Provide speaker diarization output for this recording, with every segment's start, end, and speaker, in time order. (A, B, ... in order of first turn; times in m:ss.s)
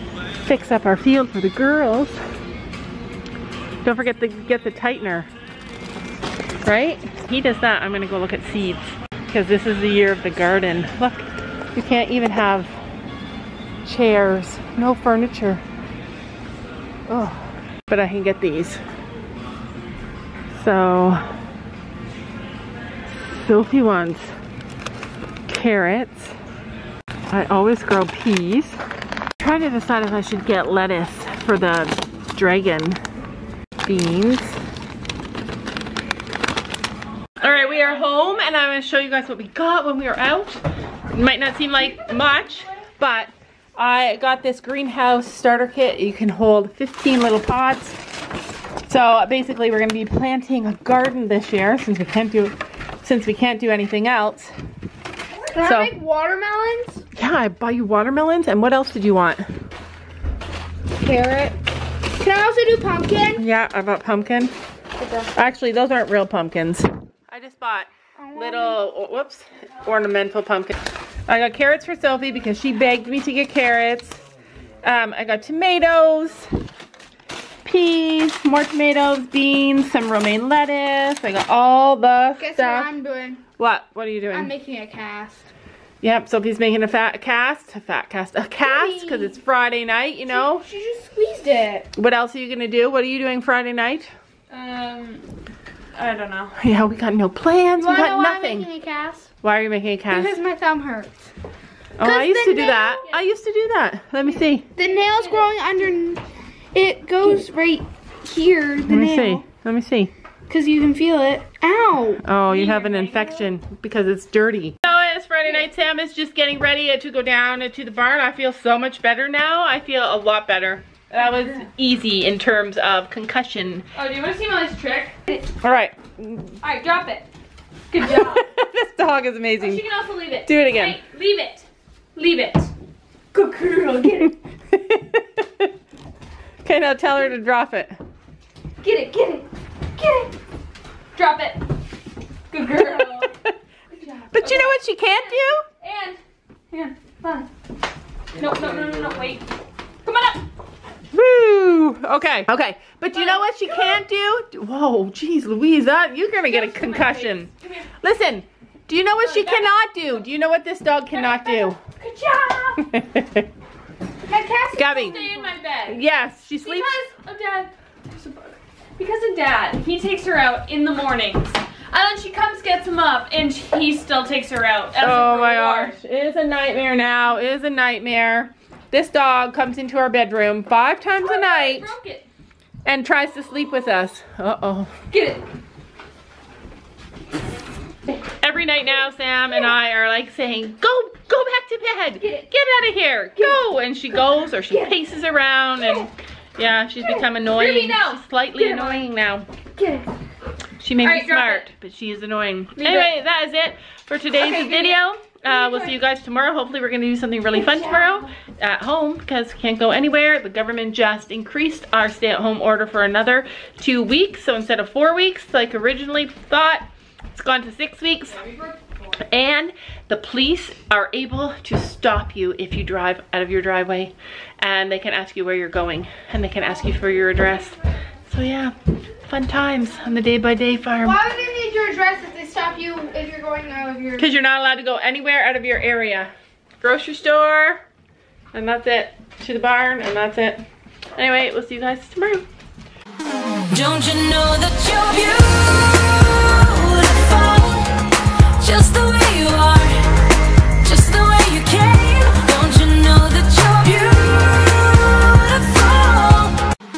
0:00.4-0:02.2 A
0:03.8-0:05.3 A
0:06.6-0:12.7 A
0:13.8-0:15.6 A
0:17.1-0:18.8 A
0:20.5-0:21.2 A
0:23.2-0:24.3 A
0:25.5-0:26.3 A
0:27.3-0:28.8 A
0:29.4-0:33.0 A
0:33.8-0:34.6 A
0:37.4-0:48.0 A
0:42.1-0:42.4 B
0:48.8-0:54.5 A
0:55.5-0:57.0 C
0:55.6-0:55.9 A
0:57.2-0:59.4 A
1:01.0-1:01.6 C
1:02.2-1:03.4 C
1:03.4-1:04.5 A
1:05.0-1:05.3 C
1:05.3-1:10.8 A
1:08.2-1:08.8 C
1:11.3-1:14.2 A
1:14.8-1:16.5 A
1:17.6-1:22.9 A
1:22.4-1:23.4 C
1:23.6-1:24.5 A
1:24.3-1:25.5 C
1:26.0-1:30.6 A
1:28.6-1:29.4 C
1:30.3-1:31.9 C
1:31.9-1:34.1 A
1:34.5-1:35.2 B
1:36.0-1:36.5 B
1:36.6-1:38.7 A
1:37.8-1:39.3 C
1:39.4-1:40.4 A
1:40.1-1:41.1 C
1:42.0-1:44.7 A
1:42.0-1:43.0 C
1:42.7-1:43.3 B
1:44.8-1:46.2 C
1:44.8-1:45.5 B
1:46.7-1:49.4 C
1:48.9-1:50.1 A
1:50.5-1:52.2 C
1:52.2-2:03.9 A
1:52.4-1:53.5 B
2:03.9-2:05.4 B
2:05.6-2:06.6 A
2:06.6-2:07.3 B
2:07.9-2:08.4 B
2:08.0-2:09.8 A
2:09.6-2:12.7 B
2:10.4-2:11.0 A
2:13.3-2:14.4 B
2:14.7-2:15.7 A
2:16.6-2:17.9 A
2:18.8-2:20.3 B
2:21.2-2:21.7 B
2:22.5-2:23.3 B
2:22.7-2:23.5 A
2:23.9-2:26.2 B
2:24.3-2:25.6 A
2:26.7-2:27.5 B
2:28.3-2:29.5 B
2:30.0-2:30.5 B
2:31.1-2:37.5 A
2:33.1-2:34.0 B
2:36.4-2:37.9 B
2:38.0-2:41.8 A
2:39.2-2:39.7 B
2:41.1-2:42.8 B
2:42.8-2:43.5 A
2:44.3-2:45.5 C
2:44.7-2:45.2 A
2:44.9-2:46.0 B
2:45.8-2:47.0 A
2:46.6-2:55.9 B
2:55.0-3:01.9 A
3:01.2-3:02.3 B
3:02.8-3:04.9 A
3:05.1-3:05.4 B
3:08.2-3:19.5 A
3:12.2-3:12.5 B
3:13.4-3:13.6 B
3:14.6-3:14.9 B
3:15.8-3:16.1 B
3:17.0-3:19.0 B
3:19.7-3:20.1 B
3:20.8-3:38.5 A
3:21.0-3:21.7 B
3:22.8-3:23.1 B
3:24.4-3:25.9 B
3:27.5-3:28.2 B
3:38.4-3:39.0 B
3:39.2-3:48.7 A
3:49.2-3:51.2 A
3:51.0-3:54.3 C
3:54.2-3:57.8 A
3:58.5-4:00.6 A
4:01.2-4:02.4 A
4:03.7-4:16.6 D